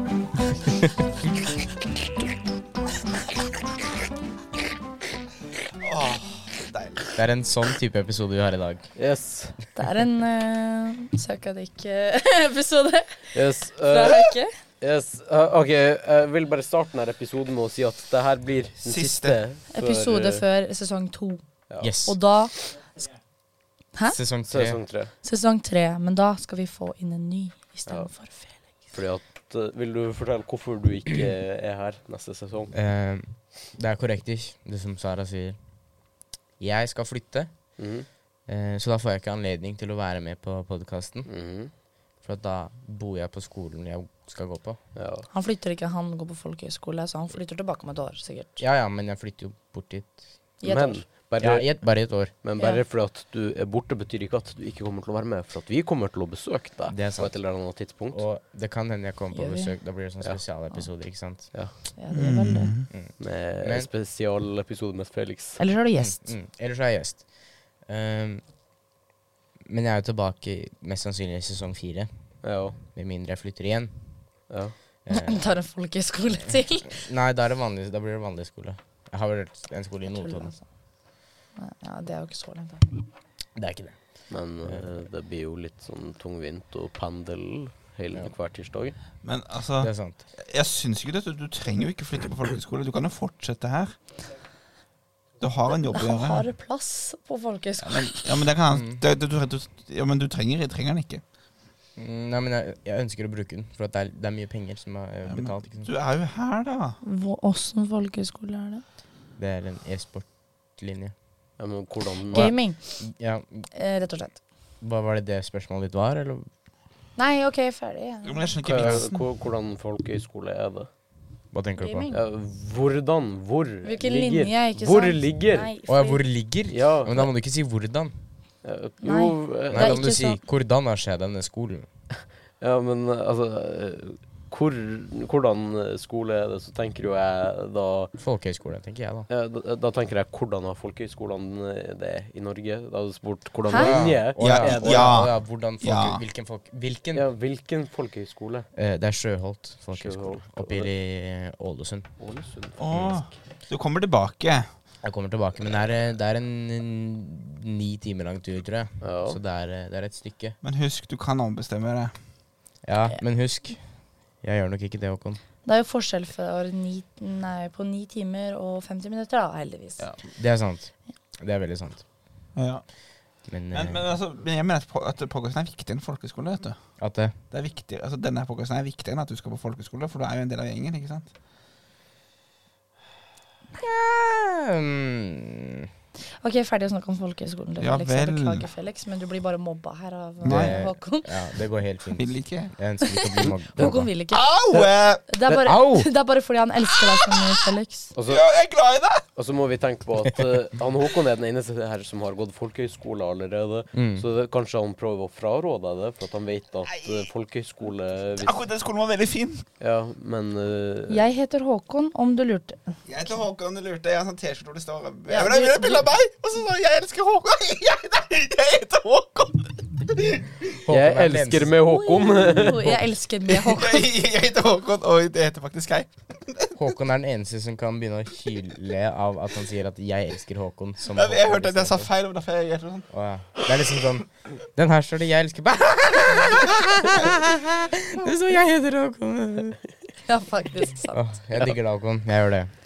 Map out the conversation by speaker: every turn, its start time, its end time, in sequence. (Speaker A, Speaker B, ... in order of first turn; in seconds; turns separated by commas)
Speaker A: 5.8-7.1, Speaker B: 7.1-8.9, Speaker C: 8.9-9.6, Speaker D: 9.7-14.5, Speaker C: 13.3-14.2, Speaker C: 14.8-20.4, Speaker A: 18.8-19.4, Speaker D: 19.7-21.4, Speaker B: 21.8-22.2, Speaker D: 22.0-22.5, Speaker B: 24.1-24.8, Speaker C: 24.5-25.1, Speaker D: 25.2-28.5, Speaker C: 28.9-32.7, Speaker B: 32.7-35.6, Speaker B: 36.6-37.5, Speaker C: 37.8-38.1, Speaker B: 38.5-41.3, Speaker C: 41.3-41.7, Speaker B: 42.2-44.8, Speaker C: 45.0-45.3, Speaker D: 45.3-48.6, Speaker B: 48.6-50.2, Speaker D: 50.6-51.0, Speaker C: 50.6-58.2, Speaker B: 51.4-52.3, Speaker B: 56.9-57.4, Speaker B: 58.1-61.5, Speaker D: 59.3-59.7, Speaker D: 62.0-62.7, Speaker A: 62.1-62.9, Speaker B: 62.9-63.9, Speaker C: 63.2-65.6, Speaker D: 65.6-66.3, Speaker B: 66.0-67.2, Speaker B: 67.8-68.4, Speaker B: 69.7-72.1, Speaker C: 72.4-72.8, Speaker B: 72.9-73.9, Speaker B: 75.1-75.4, Speaker D: 75.1-77.0, Speaker B: 76.5-80.5, Speaker D: 80.2-80.6, Speaker D: 81.5-82.9, Speaker B: 83.5-84.0, Speaker C: 84.3-89.0, Speaker B: 84.6-84.9, Speaker A: 89.2-94.0, Speaker B: 89.8-90.2, Speaker A: 95.4-96.5, Speaker D: 95.7-98.4, Speaker A: 97.8-101.2, Speaker B: 98.7-99.0, Speaker B: 102.0-105.9, Speaker A: 105.3-107.0, Speaker D: 107.0-108.8, Speaker B: 109.4-111.1, Speaker C: 111.6-112.5, Speaker D: 112.3-113.0, Speaker B: 112.3-113.7, Speaker D: 113.7-114.4, Speaker B: 114.8-116.5, Speaker D: 117.2-118.6, Speaker A: 118.2-119.2, Speaker C: 118.7-120.9, Speaker B: 121.5-122.1, Speaker D: 121.8-122.2, Speaker C: 122.1-125.7, Speaker D: 123.8-126.2, Speaker B: 125.9-128.1, Speaker C: 126.7-127.3, Speaker C: 128.6-130.0, Speaker D: 129.0-130.4, Speaker B: 129.7-131.9, Speaker C: 132.6-138.1, Speaker B: 138.2-139.3, Speaker C: 139.3-145.2, Speaker B: 143.7-147.2, Speaker A: 143.9-146.2, Speaker C: 147.1-148.7, Speaker B: 148.7-152.1, Speaker C: 149.9-150.9, Speaker C: 152.2-153.3, Speaker A: 152.8-154.7, Speaker B: 155.0-160.6, Speaker C: 159.0-159.4, Speaker A: 160.6-162.1, Speaker B: 162.8-163.8, Speaker B: 164.4-165.4, Speaker D: 165.6-170.0, Speaker B: 170.3-172.0, Speaker A: 172.6-172.8, Speaker B: 173.5-174.0, Speaker A: 173.7-176.8, Speaker B: 177.0-177.3, Speaker A: 177.5-181.3, Speaker B: 183.8-185.9, Speaker D: 186.4-191.3, Speaker A: 187.8-188.7, Speaker B: 190.4-194.1, Speaker A: 190.4-190.8, Speaker A: 192.2-192.7, Speaker D: 193.0-198.1, Speaker A: 194.3-195.2, Speaker B: 195.5-196.1, Speaker A: 197.1-197.4, Speaker C: 198.1-198.4, Speaker A: 198.3-199.2, Speaker C: 199.3-208.6, Speaker B: 203.9-204.2, Speaker A: 206.9-207.2, Speaker A: 208.4-209.7, Speaker C: 209.8-211.2, Speaker D: 211.1-212.9, Speaker A: 213.1-220.6, Speaker D: 215.3-216.0, Speaker B: 220.8-221.7, Speaker C: 220.9-223.0, Speaker D: 221.8-224.1, Speaker A: 223.5-226.8, Speaker B: 226.8-232.1, Speaker A: 231.1-233.1, Speaker B: 233.1-239.8, Speaker A: 233.7-234.0, Speaker D: 240.2-241.2, Speaker B: 241.1-242.7